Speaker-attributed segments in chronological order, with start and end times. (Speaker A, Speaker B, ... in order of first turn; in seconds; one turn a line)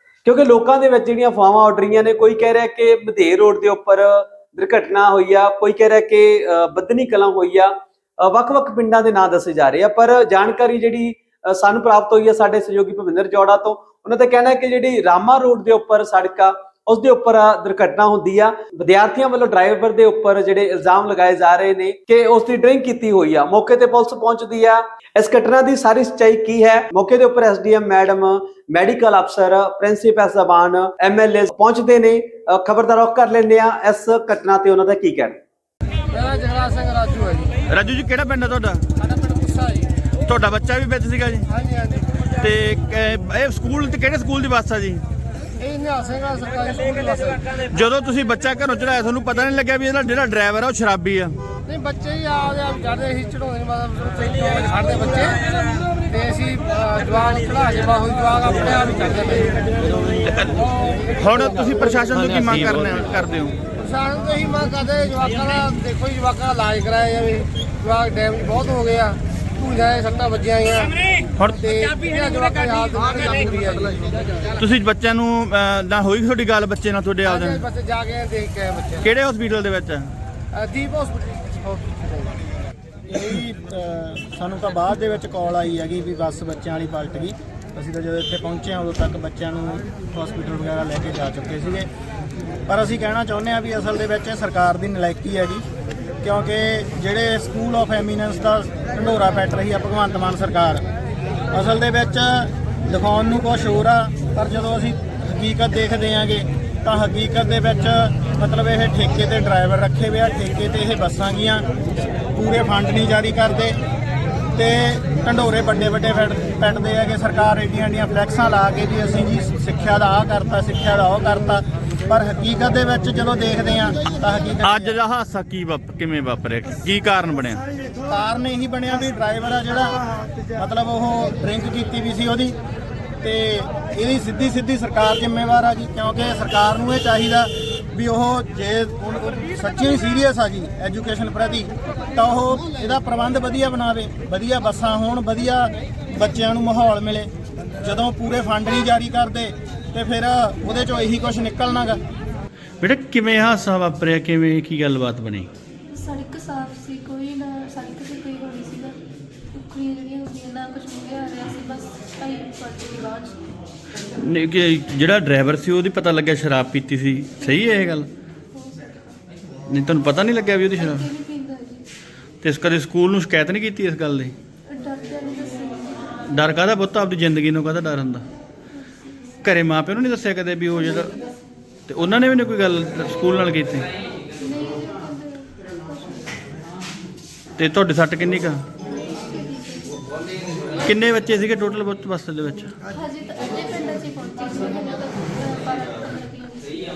Speaker A: 0.2-35.4
Speaker B: 36.1-37.5
Speaker C: 37.7-38.8
Speaker B: 39.5-39.8
Speaker C: 40.2-41.5
Speaker C: 42.3-45.0
Speaker B: 45.6-47.4
Speaker C: 47.7-51.3
Speaker B: 51.7-59.5
Speaker C: 61.1-63.6
Speaker B: 63.8-70.9
Speaker C: 71.4-71.7
Speaker B: 71.6-74.5
Speaker C: 74.6-77.7
Speaker B: 77.2-79.0
Speaker C: 79.0-80.1
Speaker B: 80.5-82.3
Speaker D: 83.1-91.9
Speaker D: 92.7-95.6
Speaker D: 96.2-100.8
Speaker D: 101.5-111.6
Speaker D: 112.3-113.7
Speaker D: 114.5-124.9
Speaker C: 124.6-127.6
Speaker D: 128.1-130.0
Speaker D: 130.5-132.5
Speaker D: 133.2-147.3
Speaker D: 147.8-152.0
Speaker C: 152.8-155.5
Speaker E: 155.9-159.0
Speaker E: 159.5-163.4
Speaker C: 164.1-168.1
Speaker E: 167.4-167.9
Speaker E: 168.5-169.2
Speaker C: 169.7-171.1
Speaker E: 170.8-171.8
Speaker C: 172.4-174.3
Speaker E: 174.7-176.2
Speaker C: 176.3-178.2
Speaker C: 179.4-181.1
Speaker C: 181.9-183.9
Speaker E: 184.4-186.4
Speaker C: 187.6-188.6
Speaker E: 188.9-190.1
Speaker C: 190.8-192.7
Speaker E: 192.9-196.7